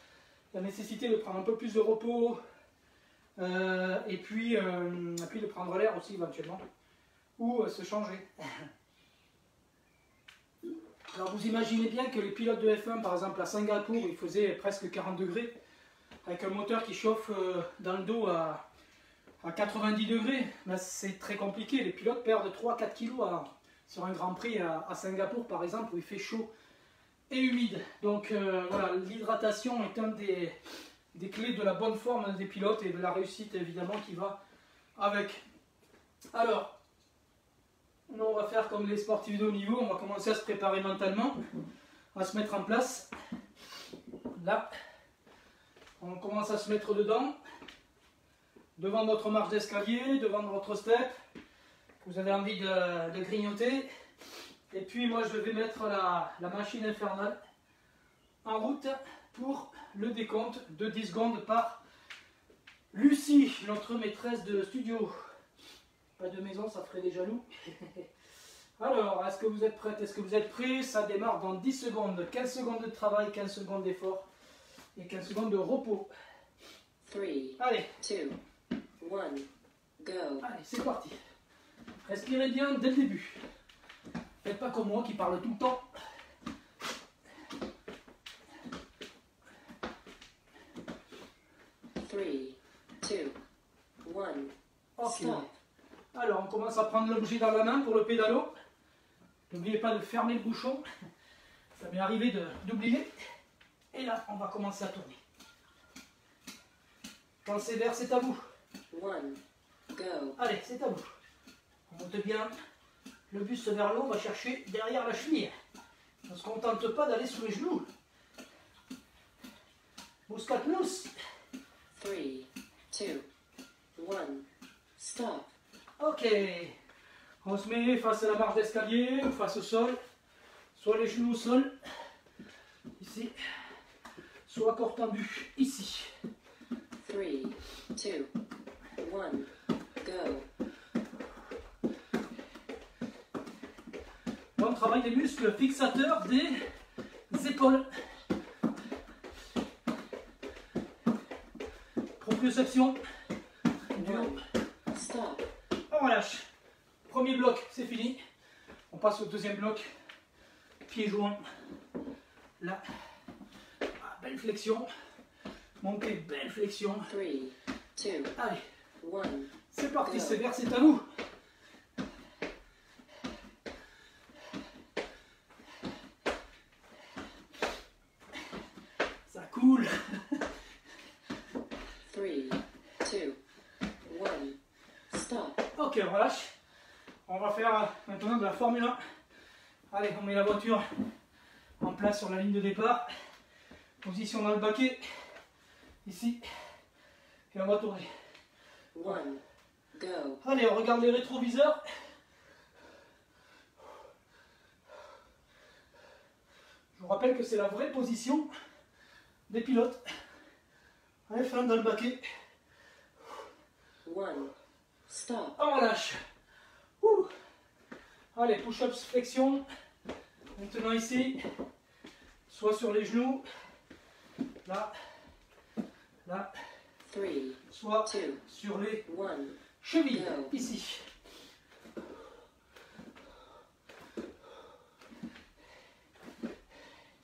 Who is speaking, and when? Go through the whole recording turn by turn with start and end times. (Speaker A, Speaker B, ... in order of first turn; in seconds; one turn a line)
Speaker A: 0.5-2.4
Speaker A: 3.4-6.6
Speaker A: 7.4-8.7
Speaker A: 11.1-15.5
Speaker A: 16.2-18.6
Speaker A: 19.4-26.5
Speaker A: 27.3-30.6
Speaker A: 31.1-34.4
Speaker A: 35.0-35.4
Speaker A: 36.3-36.7
Speaker A: 38.1-41.4
Speaker A: 42.1-43.1
Speaker A: 44.4-44.7
Speaker A: 46.0-47.4
Speaker A: 48.8-51.1
Speaker A: 52.0-53.9
Speaker A: 54.7-57.4
Speaker A: 58.4-61.8
Speaker A: 62.9-65.1
Speaker A: 66.2-68.1
Speaker A: 68.8-74.3
Speaker A: 75.0-76.1
Speaker B: 77.0-78.4
Speaker A: 77.6-77.9
Speaker B: 79.0-80.4
Speaker A: 80.4-81.2
Speaker A: 82.1-83.4
Speaker A: 84.4-85.8
Speaker B: 92.0-93.4
Speaker B: 94.0-94.5
Speaker A: 95.0-95.5
Speaker B: 95.1-95.5
Speaker A: 96.1-98.5
Speaker A: 99.5-100.8
Speaker A: 101.8-103.1
Speaker A: 103.9-105.2
Speaker A: 107.5-108.4
Speaker B: 108.9-109.4
Speaker B: 109.9-110.4
Speaker A: 110.4-111.1
Speaker A: 111.9-112.5
Speaker A: 113.3-115.5
Speaker A: 116.3-117.9
Speaker A: 120.3-121.1
Speaker B: 122.0-123.3
Speaker B: 124.0-124.5
Speaker B: 125.0-125.5
Speaker A: 126.0-126.8
Speaker A: 127.4-130.0
Speaker A: 130.8-131.8
Speaker A: 133.0-133.4
Speaker A: 134.5-136.1
Speaker B: 137.0-138.3
Speaker B: 139.0-140.5
Speaker A: 144.6-146.7
Speaker A: 147.3-148.0
Speaker A: 152.2-153.0
Speaker A: 153.9-154.4
Speaker B: 154.0-155.5
Speaker A: 155.9-156.5
Speaker A: 157.1-158.2
Speaker A: 158.9-159.9
Speaker A: 160.9-161.4
Speaker A: 164.0-164.9
Speaker A: 165.8-167.1
Speaker B: 167.1-168.3
Speaker A: 168.4-168.6
Speaker B: 169.0-170.4
Speaker A: 169.7-171.1
Speaker A: 179.3-180.5
Speaker B: 182.1-183.4
Speaker B: 184.1-184.6
Speaker B: 185.1-185.7
Speaker A: 185.8-186.5
Speaker A: 187.3-189.0
Speaker A: 189.9-191.1
Speaker A: 191.8-193.1
Speaker A: 194.0-195.2
Speaker A: 196.1-196.4
Speaker A: 197.5-198.1
Speaker B: 198.9-199.4
Speaker B: 199.9-200.4
Speaker A: 200.4-201.8
Speaker A: 207.0-208.5
Speaker A: 209.5-210.0
Speaker A: 211.3-212.2
Speaker B: 214.0-214.5
Speaker B: 215.1-215.6
Speaker A: 215.6-216.2
Speaker A: 217.0-217.3
Speaker A: 218.3-219.6
Speaker A: 220.6-221.4
Speaker A: 222.5-223.5
Speaker A: 224.7-224.9
Speaker A: 226.3-226.5
Speaker B: 227.1-228.4
Speaker A: 227.7-229.1
Speaker B: 229.1-229.5
Speaker A: 229.8-231.1
Speaker B: 230.1-230.5